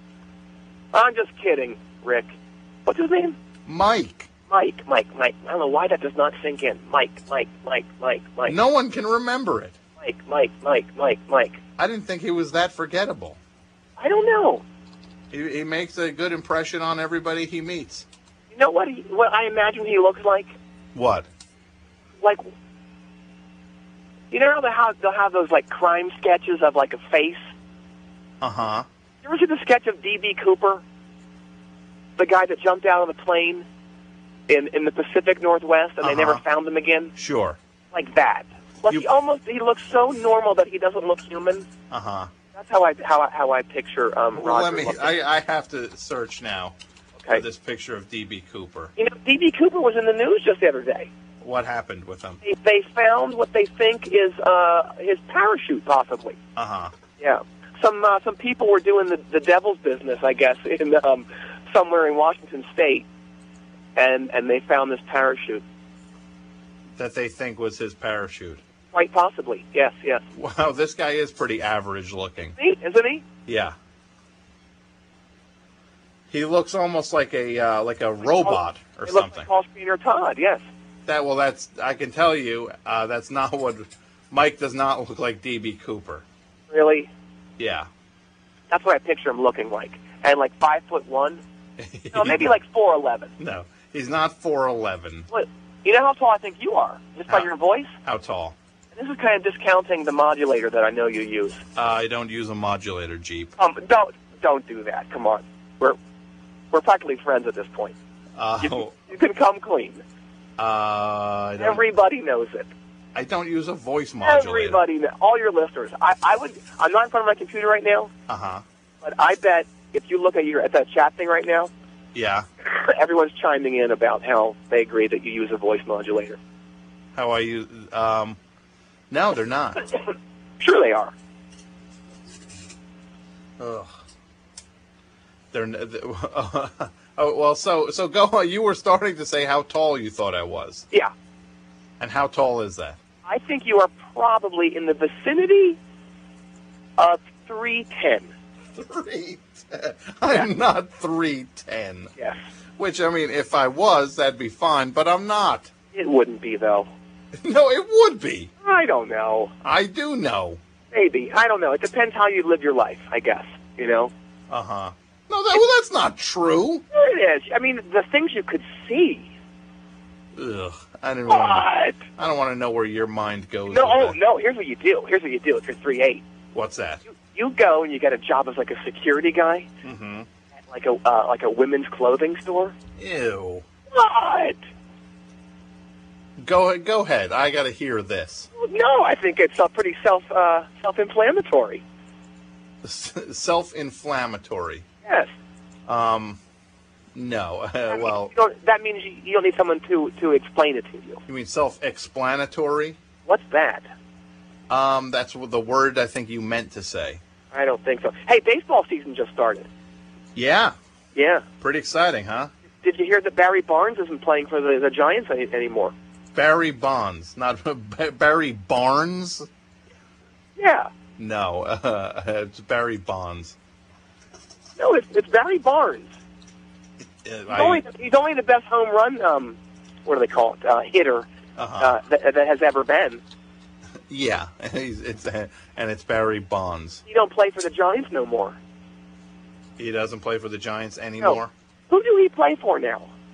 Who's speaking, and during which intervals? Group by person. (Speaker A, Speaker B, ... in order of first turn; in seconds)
Speaker A: 0.9-3.4, 4.5-8.6, 10.0-11.6, 14.0-14.6, 18.5-20.6, 24.3-27.5, 29.2-30.8, 32.2-33.6, 34.5-37.1, 37.9-41.7, 42.5-45.1, 49.0-51.1, 52.4-56.4, 57.2-63.1, 64.0-65.6, 68.9-70.2, 72.5-73.2, 78.3-80.6, 86.7-87.1, 88.7-91.4, 92.1-93.3, 95.3-97.9, 98.9-101.6, 103.6-106.0, 106.7-108.0, 108.6-110.0, 111.6-112.7, 114.2-118.1, 119.0-121.7, 122.6-126.4, 130.6-131.1, 143.2-145.8, 147.0-148.3, 155.9-156.9, 158.6-159.5, 160.9-164.1, 166.9-169.3, 171.3-172.0, 173.7-176.2, 177.1-179.7, 180.7-182.8, 183.9-184.6, 188.6-191.8, 195.1-195.3, 197.9-201.2, 203.3-203.9, 207.5-209.7, 211.2-211.5, 212.8-215.9, 220.6-220.9, 224.8-226.2, 227.5-231.3, 231.8-233.2, 237.1-238.6, 241.2-243.1
Speaker B: 3.7-4.3, 8.5-9.8, 11.8-13.4, 15.3-18.1, 20.9-21.3, 28.4-28.9, 36.0-36.4, 37.2-37.6, 41.9-42.3, 44.4-46.8, 47.3-48.9, 51.4-52.4, 56.6-56.9, 67.0-68.6, 70.3-72.6, 73.5-73.7, 76.3-79.5, 81.1-86.2, 87.6-87.9, 91.8-92.5, 93.4-95.3, 98.0-98.6, 101.8-103.5, 108.4-108.9, 110.6-111.8, 113.2-114.8, 118.3-118.6, 122.1-122.5, 127.2-128.4, 129.1-129.9, 133.6-133.9, 135.5-140.8, 142.0-143.0, 148.8-152.1, 152.8-155.7, 157.4-158.5, 159.6-160.6, 164.5-166.8, 170.3-174.2, 176.5-177.0, 179.8-180.3, 183.0-183.6, 186.4-188.5, 192.8-194.8, 195.9-196.4, 197.2-198.3, 201.3-203.0, 204.7-207.2, 210.3-210.7, 211.6-212.5, 216.3-219.5, 221.2-223.6, 227.0-227.8, 231.6-231.9, 234.1-237.0, 239.8-241.5